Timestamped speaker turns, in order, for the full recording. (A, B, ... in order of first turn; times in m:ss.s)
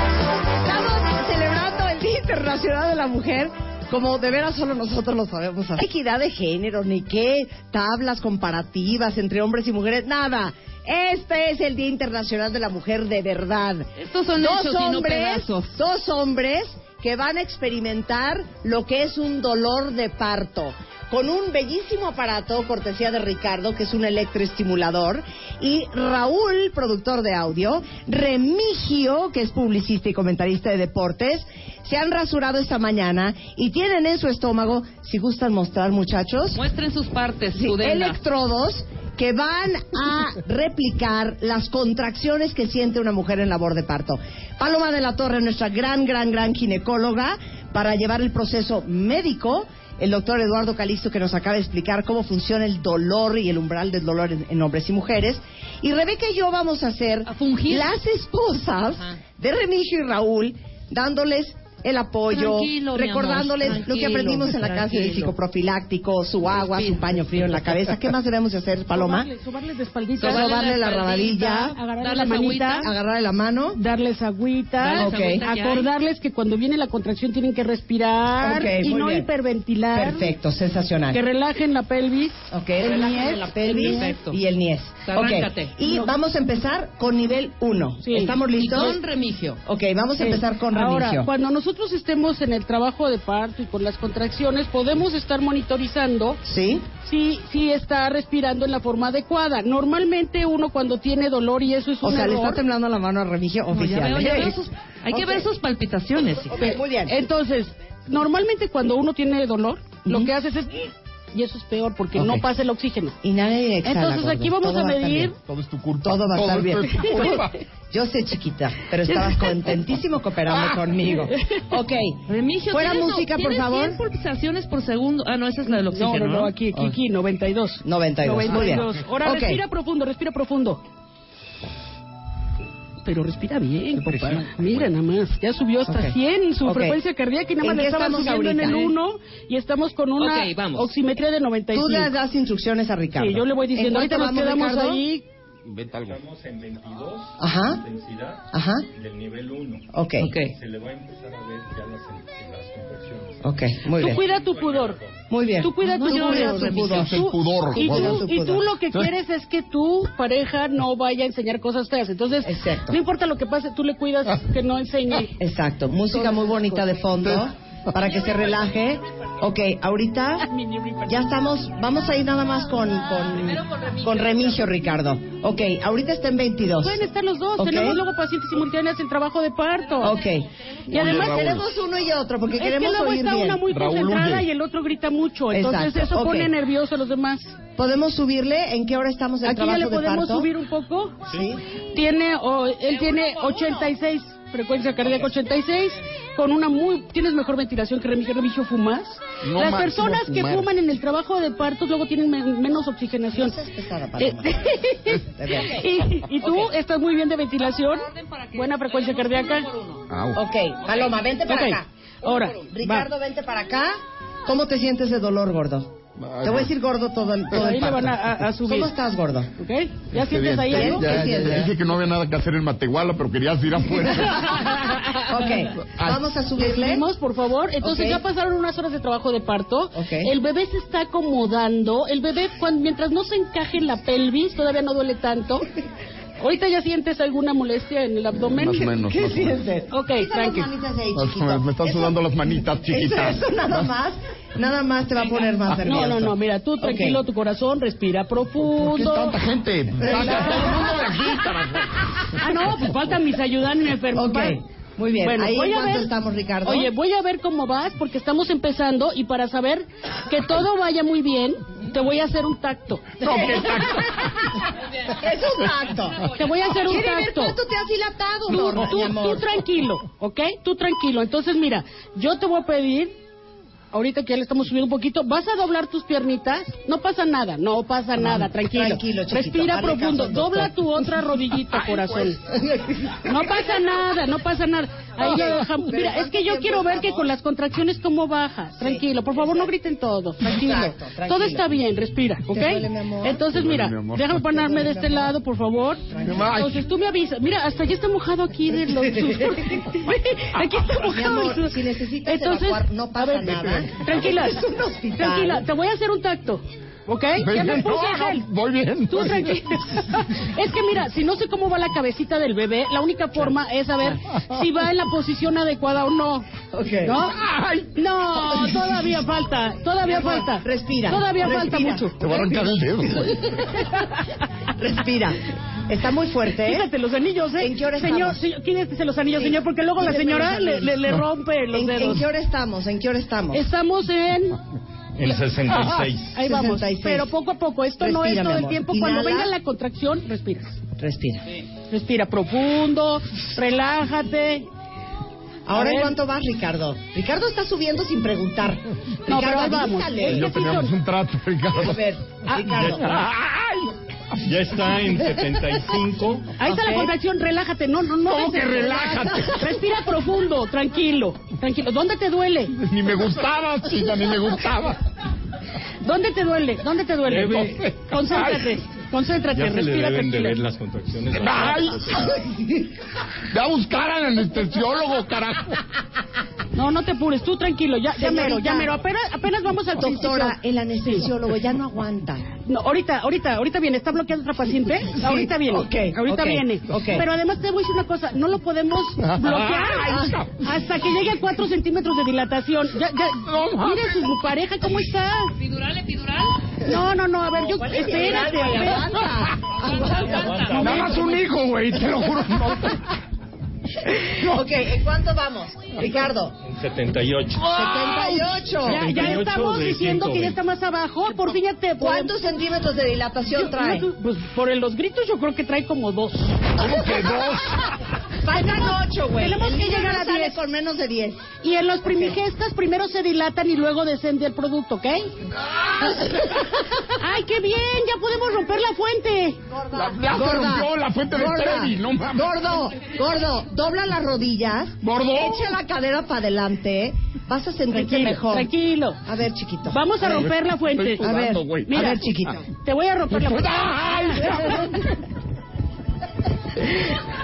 0:00.6-0:36.6 A
0:13.9-0:15.8 B
0:36.5-0:38.2 B
0:37.5-1:09.3 A
0:57.2-0:58.0 B
1:02.3-1:05.4 B
1:06.6-1:07.4 B
1:08.9-1:10.5 C
1:10.2-1:12.9 B
1:10.2-1:11.8 A
1:11.3-1:12.9 C
1:12.8-1:13.8 A
1:13.7-1:20.3 C
1:14.8-1:15.9 B
1:15.0-1:15.4 A
1:18.4-1:19.3 A
1:19.9-1:21.2 A
1:21.1-1:24.1 C
1:22.5-1:29.0 A
1:23.0-1:24.4 B
1:25.0-1:25.8 B
1:25.8-1:26.1 C
1:28.0-1:28.4 C
1:28.5-1:29.6 B
1:29.6-1:31.3 A
1:30.2-1:36.4 C
1:36.4-1:36.9 A
1:37.0-1:42.6 C
1:42.0-1:44.6 A
1:43.7-1:46.8 B
1:45.1-1:45.5 A
1:46.5-1:47.1 A
1:47.1-1:53.2 C
1:52.2-1:52.4 A
1:53.2-1:55.3 A
1:53.8-1:55.3 C
1:55.4-1:57.5 D
1:56.0-2:04.0 A
2:01.3-2:01.6 C
2:02.3-2:06.5 B
2:05.9-2:10.8 C
2:07.8-2:09.6 A
2:13.0-2:22.1 C
2:14.1-2:14.8 D
2:15.9-2:17.0 A
2:17.6-2:18.8 A
2:20.2-2:20.9 B
2:21.7-2:25.0 A
2:23.2-2:25.2 C
2:25.6-2:26.2 D
2:26.0-2:29.9 E
2:27.4-2:27.8 A
2:28.5-2:28.8 A
2:29.9-2:30.3 A
2:30.2-2:30.5 B
2:30.4-2:33.4 E
2:33.4-2:34.2 A
2:34.0-2:35.0 C
2:34.1-2:35.2 E
2:35.3-2:37.2 A
2:35.6-2:45.3 C
2:35.9-2:37.0 B
2:36.8-2:38.2 D
2:37.7-2:38.7 A
2:42.4-2:43.0 A
2:45.4-2:50.5 A
2:46.1-2:47.0 C
2:50.4-2:51.2 C
2:51.1-2:57.0 A
2:53.0-2:54.6 B
2:56.8-3:00.2 C
2:57.6-2:58.0 A
3:00.0-3:03.6 A
3:00.9-3:01.5 C
3:00.9-3:01.7 D
3:02.5-3:07.6 C
3:03.6-3:04.5 D
3:05.5-3:06.5 A
3:07.8-3:10.5 A
3:09.4-3:11.3 C
3:11.3-3:11.6 A
3:11.9-3:23.6 C
3:12.9-3:13.9 B
3:19.4-3:20.7 D
3:23.3-3:24.7 A
3:24.2-3:29.7 C
3:25.3-3:25.8 A
3:27.6-3:30.0 B
3:30.1-3:30.4 D
3:30.3-3:39.5 A
3:31.4-3:33.1 C
3:36.2-3:36.7 D
3:37.5-3:38.9 C
3:39.6-3:41.1 C
3:40.1-3:44.8 D
3:40.7-3:41.7 A
3:45.3-3:47.0 A
3:45.9-3:46.2 D
3:46.6-3:55.7 C
3:47.8-3:48.2 A
3:49.9-3:50.3 A
3:56.4-3:58.9 C
3:58.4-3:59.6 D
3:58.8-4:02.2 A
3:59.9-4:00.7 C
4:01.1-4:03.7 D
4:02.9-4:07.2 A
4:05.8-4:09.4 C
4:08.7-4:12.8 D
4:10.0-4:10.8 C
4:10.0-4:10.9 A
4:12.3-4:14.6 C
4:14.1-4:16.9 A
4:15.2-4:16.1 C
4:16.6-4:23.2 C
4:23.2-4:24.2 D
4:23.2-4:26.3 A
4:26.3-4:27.6 C
4:26.8-4:29.6 A
4:28.5-4:33.2 C
4:33.9-4:42.4 C
4:38.2-4:40.7 A
4:41.7-4:43.7 A
4:43.2-5:04.6 C
4:45.2-4:47.3 A
4:48.8-4:49.7 A
4:50.4-4:51.7 A
4:52.5-4:53.4 A
4:53.4-4:54.4 D
4:54.4-4:55.3 A
4:56.1-4:56.6 A
4:56.2-4:56.8 D
5:00.9-5:05.6 A
5:05.2-5:08.4 C
5:07.4-5:09.6 D
5:09.1-5:16.4 C
5:16.7-5:17.2 A
5:17.0-5:17.4 C
5:17.3-5:17.9 D
5:17.9-5:22.1 C
5:20.0-5:23.3 A
5:22.2-5:23.5 D
5:24.8-5:26.9 A
5:26.6-5:32.2 C
5:27.6-5:28.4 A
5:29.4-5:33.6 A
5:33.5-5:34.6 C
5:35.2-5:36.4 E
5:35.8-5:40.8 C
5:36.4-5:37.3 A
5:38.0-5:39.5 A
5:41.0-5:41.4 A
5:41.9-5:44.7 C
5:45.7-5:50.5 A
5:45.7-5:46.2 C
5:49.3-5:50.9 C
5:50.2-5:52.0 D
5:51.7-5:53.2 A
5:52.5-5:52.8 C
5:52.7-5:53.2 E
5:53.1-5:53.9 D
5:54.4-5:56.5 E
5:56.6-6:02.7 C
5:56.7-5:57.1 A
5:58.2-5:59.7 D
6:02.8-6:05.0 D
6:06.0-6:10.6 C
6:07.3-6:07.8 E
6:07.5-6:08.7 D
6:09.5-6:12.3 E
6:11.3-6:12.3 D
6:13.5-6:15.8 D
6:16.7-6:20.6 C
6:18.1-6:18.9 A
6:20.0-6:22.5 A
6:22.6-6:35.5 C
6:25.2-6:27.2 A
6:29.2-6:30.6 D
6:33.4-6:34.3 D
6:35.5-6:36.6 B
6:36.8-6:39.2 C
6:37.5-6:40.5 A
6:39.8-6:40.9 B
6:40.3-6:41.0 E
6:40.7-6:41.4 C
6:40.8-6:43.0 D
6:44.2-6:46.6 A
6:46.6-6:47.7 E
6:47.6-6:48.4 D
6:47.7-6:49.3 A
6:48.8-6:50.6 E
6:48.8-6:52.3 C
6:52.0-6:54.1 A
6:53.5-6:56.6 C
6:56.8-6:57.8 D
6:58.4-7:01.5 A
6:58.5-7:00.6 C
7:01.6-7:05.3 C
7:07.2-7:09.6 C
7:09.7-7:18.7 A
7:09.9-7:12.6 D
7:15.0-7:15.8 D
7:17.9-7:19.2 C
7:19.2-7:20.4 A
7:19.9-7:21.2 C
7:20.3-7:22.4 D
7:21.2-7:22.6 A
7:21.8-7:22.2 C
7:22.8-7:24.8 C
7:23.3-7:25.1 D